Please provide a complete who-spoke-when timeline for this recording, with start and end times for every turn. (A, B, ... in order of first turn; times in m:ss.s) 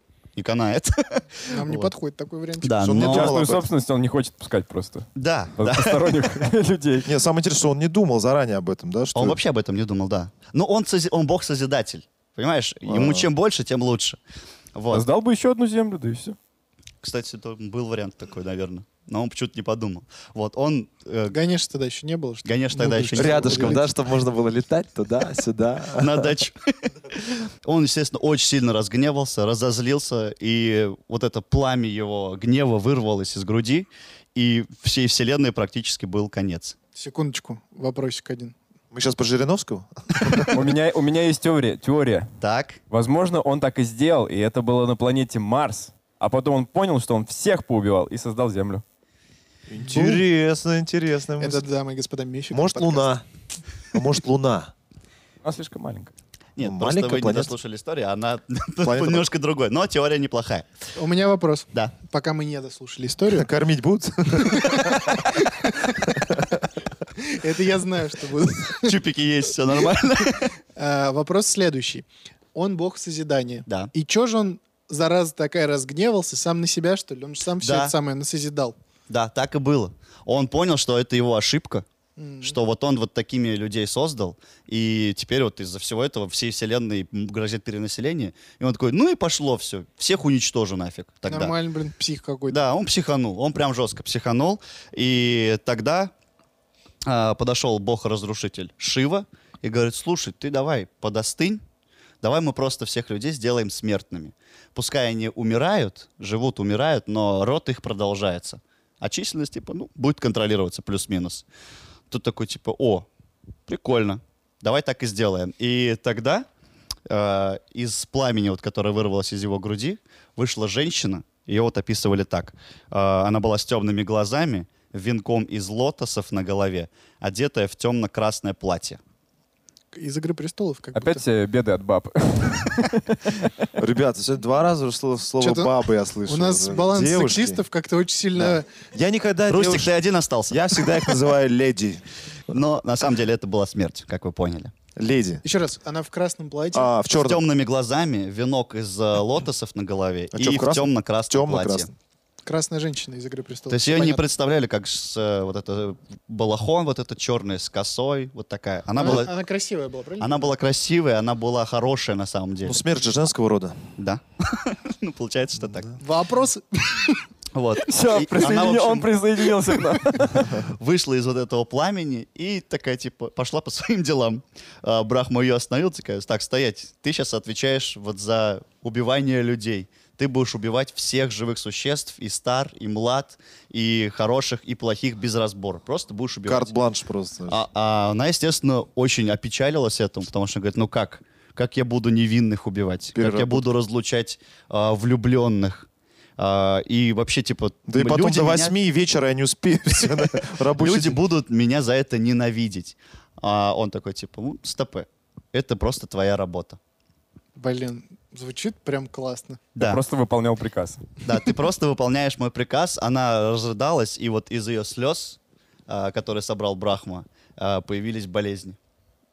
0:00.4-0:01.9 A
0:01.5-0:02.8 B
0:02.6-0:03.4 A
0:02.8-0:03.7 C
0:02.9-0:07.1 D
0:05.2-0:06.2 A
0:07.0-0:09.4 C
0:09.2-0:14.2 A
0:12.9-0:13.3 C
0:14.8-0:15.1 A
0:14.9-0:16.4 D
0:17.0-0:21.4 A
0:21.3-0:23.9 B
0:22.4-0:23.8 A
0:23.2-0:26.3 C
0:26.0-0:36.8 A
0:37.0-0:38.6 B
0:38.9-0:40.6 C
0:40.5-0:42.3 D
0:42.4-0:42.8 A
0:42.9-0:48.8 D
0:49.7-0:51.6 C
0:49.9-0:50.2 B
0:51.4-0:53.1 B
0:52.5-0:53.2 C
0:53.9-0:54.7 C
0:55.4-0:56.1 D
0:56.6-1:00.7 A
0:56.6-0:57.5 C
0:58.8-0:59.3 C
1:00.9-1:03.5 B
1:03.3-1:05.2 C
1:04.4-1:06.2 B
1:06.2-1:06.4 C
1:07.2-1:09.0 B
1:08.8-1:10.5 A
1:10.8-1:18.8 B
1:17.6-1:17.9 A
1:19.1-1:21.9 A
1:22.2-1:22.6 B
1:22.4-1:31.5 A
1:31.3-1:32.6 B
1:32.5-1:36.1 A
1:37.1-1:41.6 A
1:42.2-1:51.4 A
1:52.1-1:53.1 A
1:53.7-1:56.5 A
1:57.1-2:09.0 A
2:09.9-2:11.2 B
2:10.9-2:13.7 D
2:13.8-2:17.6 C
2:15.4-2:18.6 B
2:18.4-2:19.9 C
2:19.5-2:21.2 A
2:20.5-2:22.0 C
2:22.5-2:24.7 A
2:25.0-2:25.4 C
2:25.4-2:26.9 B
2:26.7-2:27.4 C
2:27.1-2:31.9 A
2:30.3-2:31.9 C
2:32.4-2:34.2 B
2:33.7-2:39.3 A
2:39.0-2:40.5 B
2:40.2-2:42.8 A
2:42.6-2:44.0 C
2:44.0-2:45.9 A
2:45.6-2:46.0 C
2:46.0-2:47.2 B
2:47.5-2:49.2 A
2:47.9-2:50.5 D
2:50.2-3:06.7 A
3:06.5-3:07.6 C
3:07.5-3:15.9 A
3:13.2-3:13.7 C
3:16.4-3:18.8 A
3:17.9-3:21.2 C
3:20.8-3:26.8 A
3:27.6-3:29.6 B
3:29.8-3:30.0 A
3:29.8-3:31.0 D
3:31.2-3:38.8 A